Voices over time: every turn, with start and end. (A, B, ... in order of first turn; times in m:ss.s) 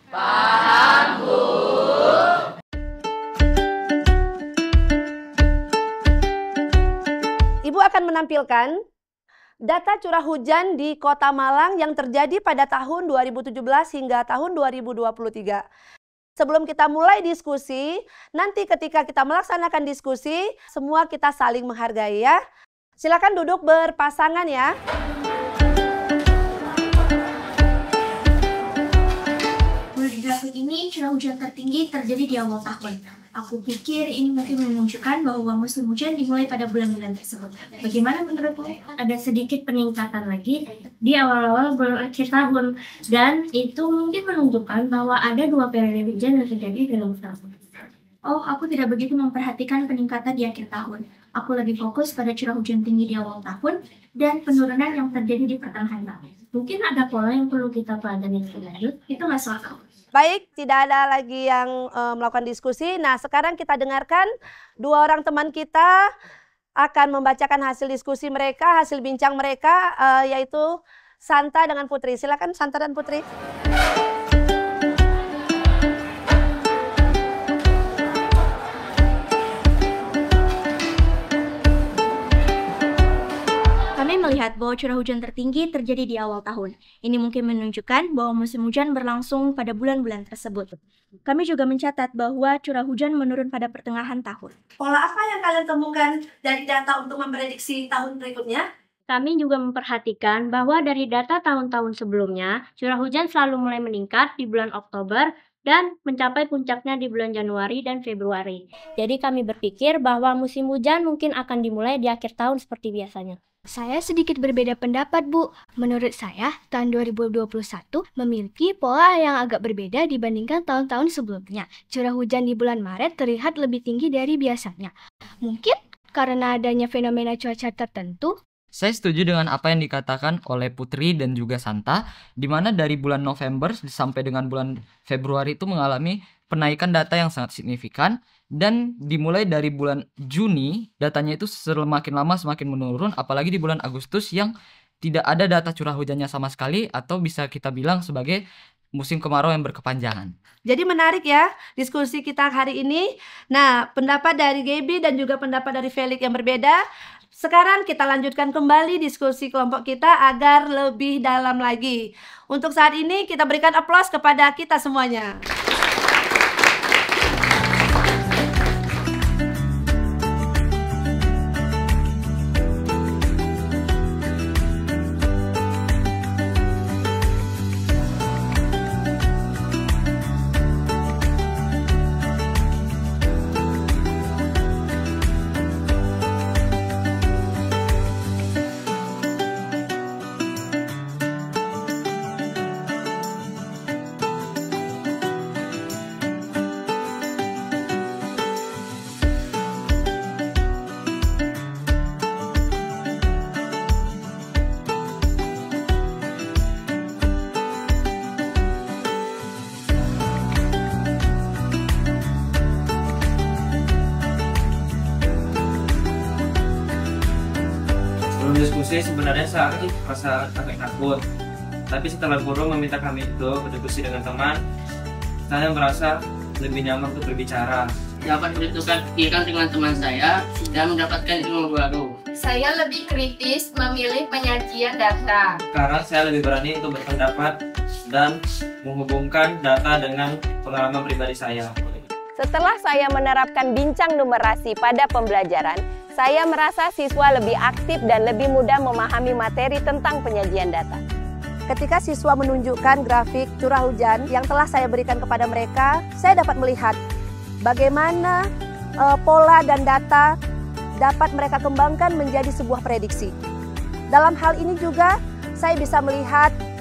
0:07.6-0:08.7 A
0:09.6-0:15.6 A
0:16.4-0:22.4 A
0:23.0-0:24.7 A
0:30.0-0:40.6 B
0:41.7-0:42.5 B
0:42.0-0:42.5 C
0:43.2-0:43.6 B
0:44.1-0:47.4 B
0:48.2-0:59.8 B
1:00.1-1:04.3 A
1:04.8-1:06.0 A
1:06.8-1:13.2 A
1:24.0-1:30.7 B
1:31.2-1:34.5 B
1:34.8-1:38.6 A
1:39.1-1:53.4 C
1:53.7-2:04.9 D
2:05.4-2:08.3 D
2:08.7-2:28.4 E
2:28.9-2:30.3 E
2:30.6-2:36.8 A
2:37.4-2:45.3 A
3:38.4-3:41.2 F
3:41.9-3:44.6 F
3:45.5-3:47.9 F
3:48.2-3:52.1 G
3:52.4-3:55.5 H
3:55.7-3:57.6 F
3:58.1-4:01.7 F
4:02.4-4:11.0 I
4:11.7-4:17.0 A
4:17.6-4:18.4 A
4:19.0-4:20.3 A
4:21.0-4:23.3 A
4:24.1-4:26.5 A